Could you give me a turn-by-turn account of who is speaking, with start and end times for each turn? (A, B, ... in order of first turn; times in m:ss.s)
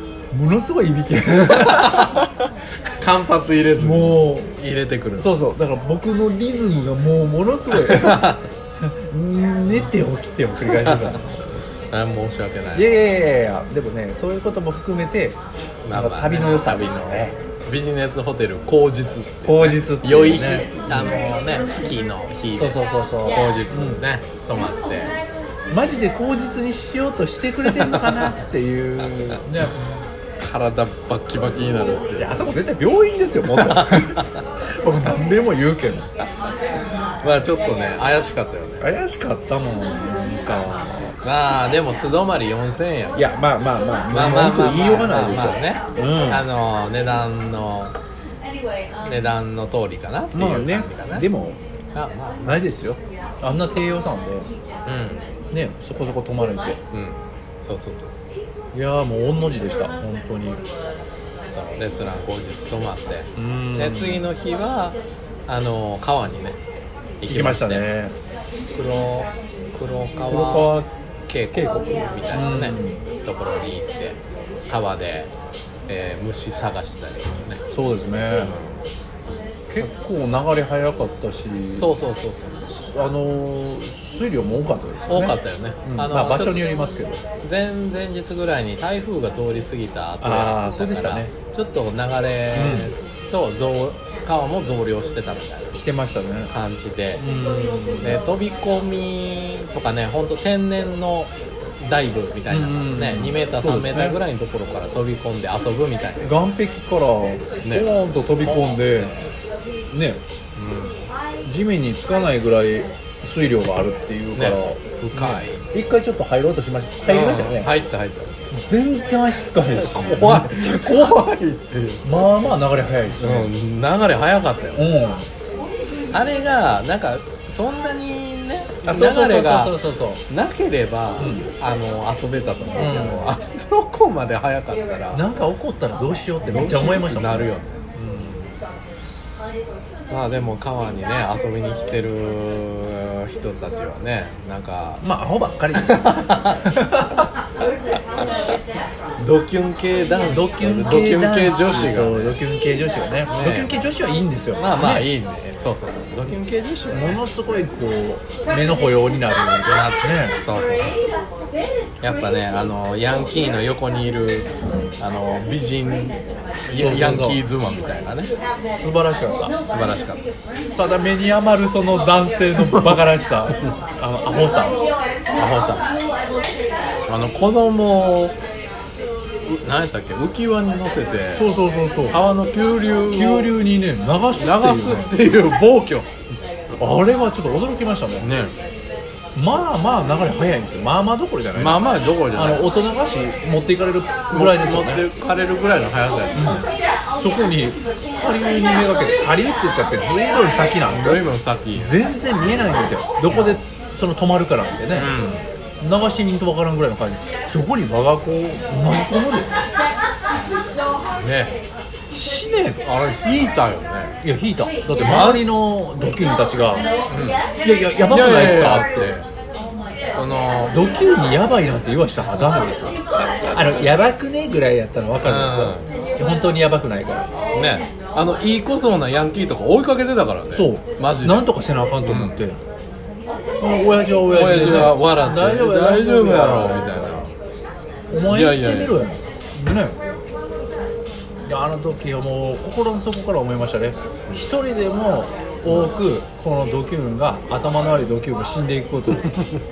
0:00.3-0:02.3 A
0:01.6-0:02.2 B
0:03.0-0:05.3 B
0:03.8-0:04.5 A
0:05.2-0:11.5 A
0:07.7-0:08.4 B
0:10.8-0:11.2 B
0:11.9-0:12.9 B
0:12.7-0:15.4 A
0:15.8-0:25.1 B
0:15.9-0:17.3 A
0:19.4-0:21.2 A
0:22.6-0:24.0 A
0:25.7-0:29.8 A
0:27.6-0:28.3 B
0:30.4-0:32.6 B
0:32.2-0:36.1 A
0:33.5-0:34.4 B
0:37.2-0:38.8 B
0:38.8-0:41.1 A
0:41.2-0:43.2 B
0:43.1-0:46.4 A
0:44.1-0:47.9 B
0:49.0-0:51.2 B
0:50.3-0:51.6 A
0:51.9-0:52.6 B
0:52.4-0:54.5 A
0:54.8-0:55.2 B
0:55.5-0:56.8 A
0:56.9-0:58.1 B
0:58.7-1:00.6 A
1:01.5-1:05.0 B
1:03.4-1:04.2 A
1:05.5-1:06.6 B
1:07.2-1:07.8 B
1:07.3-1:08.1 A
1:08.7-1:10.7 B
1:10.3-1:10.9 A
1:11.3-1:14.2 B
1:11.5-1:13.0 A
1:14.7-1:15.3 B
1:15.9-1:17.6 B
1:17.7-1:18.5 A
1:18.3-1:18.8 B
1:19.7-1:21.9 A
1:21.8-1:22.6 B
1:22.7-1:27.2 A
1:25.1-1:26.6 B
1:27.4-1:35.8 B
1:30.2-1:31.3 A
1:32.5-1:32.9 A
1:35.7-1:36.5 A
1:36.5-1:37.2 B
1:37.2-1:38.2 A
1:38.0-1:46.4 B
1:42.5-1:44.2 A
1:46.2-1:49.1 A
1:47.6-1:47.9 B
1:48.4-1:49.3 B
1:49.9-1:50.2 A
1:50.6-1:51.0 B
1:51.4-1:57.7 A
1:54.4-1:55.6 B
1:57.1-1:58.3 B
1:58.5-2:01.2 A
1:59.8-2:02.0 B
2:02.0-2:03.5 A
2:03.2-2:04.8 B
2:04.8-2:05.3 A
2:06.1-2:09.7 B
2:08.8-2:10.2 A
2:10.3-2:15.2 B
2:11.2-2:11.5 A
2:12.8-2:13.3 A
2:15.1-2:18.5 A
2:16.4-2:17.8 B
2:20.1-2:25.0 B
2:25.0-2:27.2 A
2:25.8-2:26.6 B
2:29.2-2:32.4 B
2:30.3-2:35.1 A
2:33.3-2:33.8 B
2:34.6-2:37.2 B
2:36.9-2:40.4 A
2:39.6-2:41.0 B
2:42.0-2:48.3 B
2:46.7-2:47.4 A
2:48.7-2:49.5 A
2:49.7-2:50.2 B
2:50.8-2:54.8 A
2:52.6-2:52.9 B
2:55.3-2:55.8 B
2:57.1-2:58.3 B
2:59.6-3:01.5 B
3:01.3-3:02.2 A
3:02.1-3:03.5 B
3:03.1-3:05.1 A
3:04.4-3:06.1 B
3:06.8-3:08.3 A
3:08.2-3:08.5 B
3:09.3-3:15.0 A
3:11.6-3:12.6 B
3:14.3-3:16.7 B
3:16.3-3:16.6 A
3:17.2-3:25.1 A
3:20.9-3:22.0 B
3:23.3-3:23.6 B
3:24.9-3:25.4 B
3:25.8-3:29.7 A
3:31.2-3:31.6 B
3:32.1-3:32.8 A
3:32.8-3:34.2 B
3:34.2-3:36.9 A
3:35.0-3:35.4 B
3:37.1-3:37.4 B
3:37.6-3:39.1 A
3:38.1-3:39.2 B
3:40.1-3:40.7 B
3:40.7-3:47.3 A
3:45.2-3:45.9 B
3:47.5-3:51.5 B
3:50.5-3:52.6 A
3:52.0-3:52.4 B
3:53.6-3:57.2 A
3:54.3-3:57.3 B
3:58.1-4:00.0 A
3:58.3-3:59.0 B
4:01.4-4:09.3 A